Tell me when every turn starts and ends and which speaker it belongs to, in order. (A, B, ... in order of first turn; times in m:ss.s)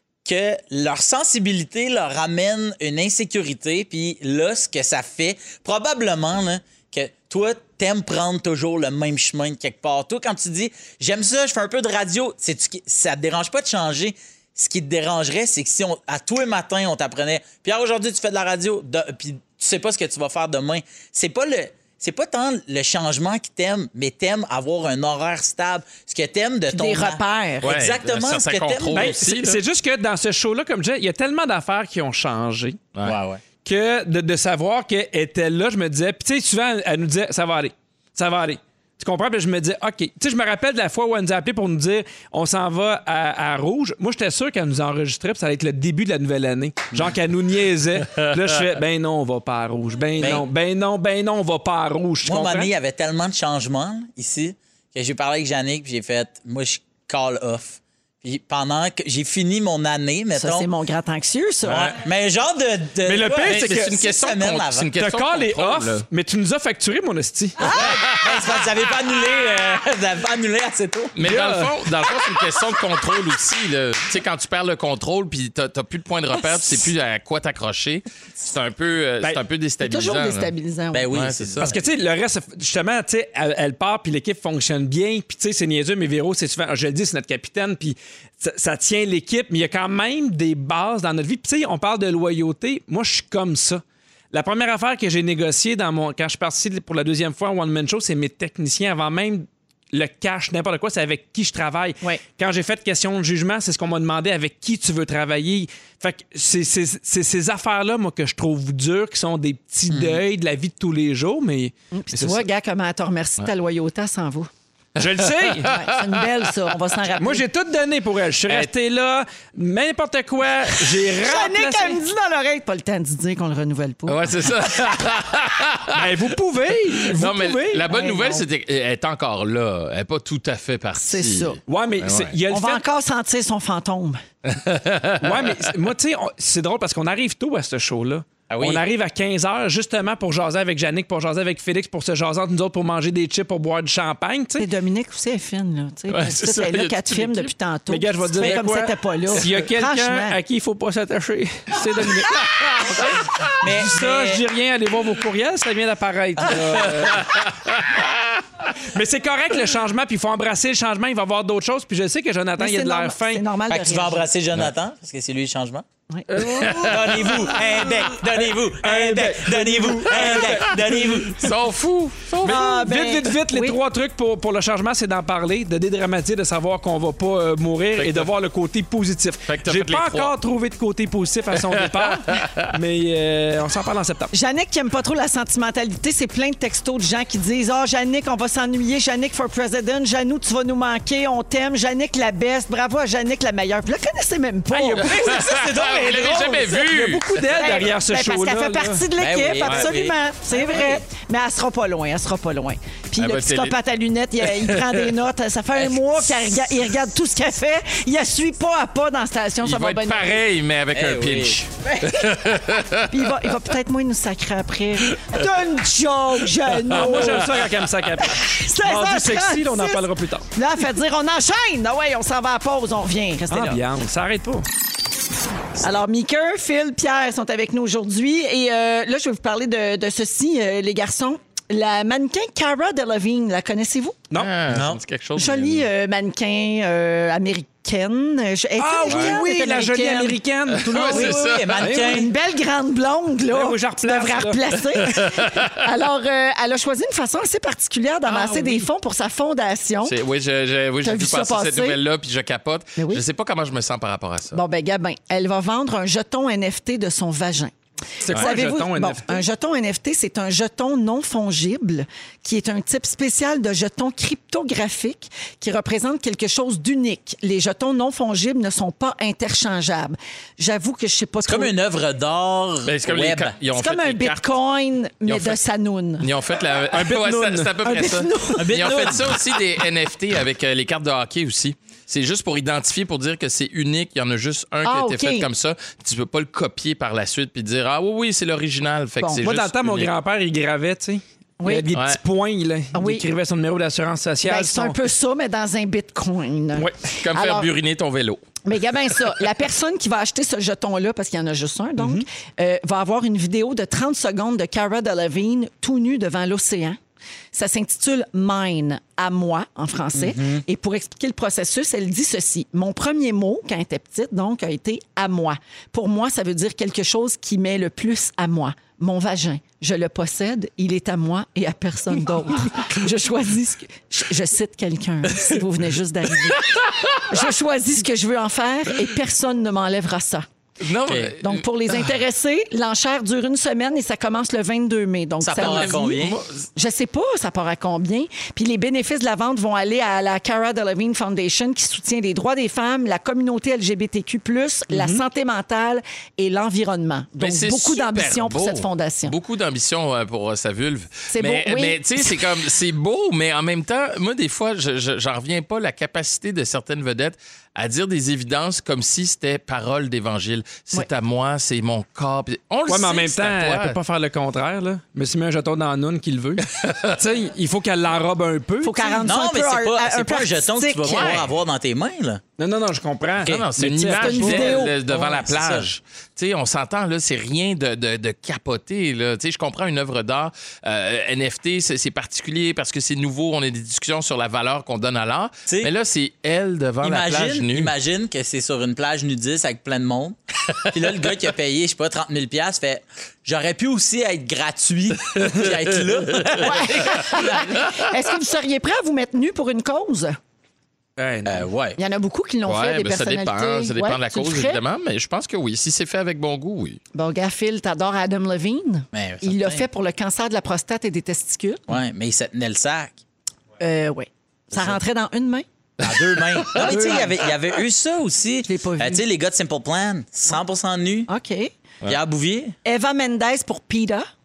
0:00.2-0:29.2 A
0:26.7-0:27.8 B
0:27.6-0:29.6 C
0:28.9-0:32.8 D
0:33.0-0:33.4 A
0:33.6-0:52.7 D
0:50.2-0:50.4 A
0:52.2-1:00.7 A
1:00.4-1:02.0 B
1:01.7-1:04.9 A
1:01.7-1:02.0 C
1:03.0-1:04.0 D
1:03.4-1:06.1 C
1:05.0-1:07.7 D
1:07.6-1:11.2 A
1:07.7-1:08.6 C
1:11.2-1:20.5 C
1:11.2-1:11.8 D
1:19.8-1:21.1 B
1:20.9-1:21.8 A
1:21.1-1:21.8 C
1:21.6-1:52.5 D
1:49.9-1:50.2 A
1:51.9-1:54.5 B
1:55.0-1:55.7 D
1:55.4-1:56.2 C
1:55.6-1:57.4 B
1:57.2-2:02.0 D
2:01.2-2:04.3 B
2:04.1-2:06.2 C
2:05.9-2:07.9 D
2:07.0-2:12.4 C
2:07.9-2:08.4 B
2:11.0-2:11.6 B
2:11.7-2:12.8 D
2:12.5-2:14.2 B
2:14.5-2:15.7 C
2:15.2-2:24.7 D
2:18.5-2:18.8 A
2:24.6-2:30.4 B
2:26.1-2:27.5 C
2:27.9-2:37.4 D
2:28.4-2:28.6 A
2:32.3-2:33.1 C
2:33.6-2:34.4 A
2:36.4-2:36.9 A
2:36.6-2:38.4 C
2:38.8-2:43.4 D
2:42.6-2:44.3 B
2:43.7-2:45.8 A
2:46.1-2:46.7 B
2:46.4-2:47.9 C
2:46.6-2:47.2 D
2:46.8-2:51.5 A
2:48.8-2:51.4 D
2:50.2-2:52.7 C
2:52.4-3:04.3 D
2:52.4-2:53.8 B
2:58.0-2:58.3 C
2:59.5-3:00.3 C
3:01.5-3:02.7 C
3:04.3-3:16.8 B
3:14.7-3:15.4 D
3:15.0-3:17.4 C
3:16.2-3:19.0 D
3:17.5-3:30.4 B
3:19.2-3:21.0 A
3:23.2-3:23.8 C
3:24.4-3:25.1 C
3:29.6-3:33.6 C
3:30.9-3:32.2 A
3:33.1-3:37.6 B
3:35.1-3:35.4 C
3:36.9-3:37.4 C
3:36.9-3:40.5 D
3:38.2-3:43.8 B
3:43.5-3:44.6 D
3:45.8-3:54.2 B
3:54.4-3:55.9 C
3:54.7-3:55.0 A
3:55.4-4:00.4 B
3:58.8-4:02.3 D
3:59.1-3:59.4 C
4:00.7-4:01.9 C
4:01.1-4:02.3 A
4:01.9-4:10.2 B
4:03.5-4:04.6 D
4:05.0-4:05.7 C
4:08.3-4:08.9 D
4:10.0-4:14.6 C
4:11.0-4:12.0 B
4:13.0-4:13.2 B
4:14.5-4:17.7 B
4:18.2-4:19.4 D
4:18.3-4:18.5 C
4:18.3-4:31.7 B
4:31.5-4:33.6 A
4:32.9-4:34.5 C
4:33.7-4:36.3 B
4:35.3-4:35.6 C
4:36.2-4:50.1 C
4:36.9-4:37.7 D
4:37.8-4:39.0 B
4:38.6-4:39.5 A
4:44.8-4:45.5 B
4:49.4-4:55.0 D
4:51.6-4:51.9 B
4:51.9-4:52.2 C
4:52.9-4:53.3 B
4:54.4-4:57.7 B
4:57.2-4:58.4 C
4:58.6-5:07.0 B
5:02.0-5:02.2 D
5:07.5-5:26.7 B
5:10.2-5:10.6 A
5:26.6-5:27.3 C
5:27.3-5:30.5 B
5:30.8-5:32.1 C
5:31.1-5:31.3 A
5:31.4-5:36.2 B
5:35.4-5:36.4 A
5:35.6-5:36.7 C
5:36.8-5:49.4 B
5:44.9-5:45.2 D
5:47.4-6:04.0 C
5:51.3-5:52.4 B
6:02.9-6:09.2 D
6:06.7-6:07.2 C
6:08.8-6:11.4 B
6:09.2-6:12.4 A
6:11.0-6:11.5 C
6:12.6-6:14.8 D
6:13.4-6:27.9 C
6:14.1-6:15.0 B
6:15.0-6:15.9 A
6:27.0-6:37.6 A
6:35.4-6:36.7 C
6:36.6-6:40.4 B
6:37.4-6:37.6 C
6:41.2-6:41.7 D
6:41.5-6:42.0 A
6:42.0-6:44.8 B
6:42.6-6:47.0 C
6:47.1-6:51.9 B
6:49.1-6:49.8 A
6:51.9-6:53.2 A
6:53.8-6:55.6 B
6:54.7-6:55.0 A
6:56.0-6:57.1 C
6:56.0-7:01.3 A
6:56.8-6:57.3 B
6:58.6-6:59.2 B
7:01.3-7:01.7 B
7:02.0-7:02.8 A
7:02.8-7:04.3 B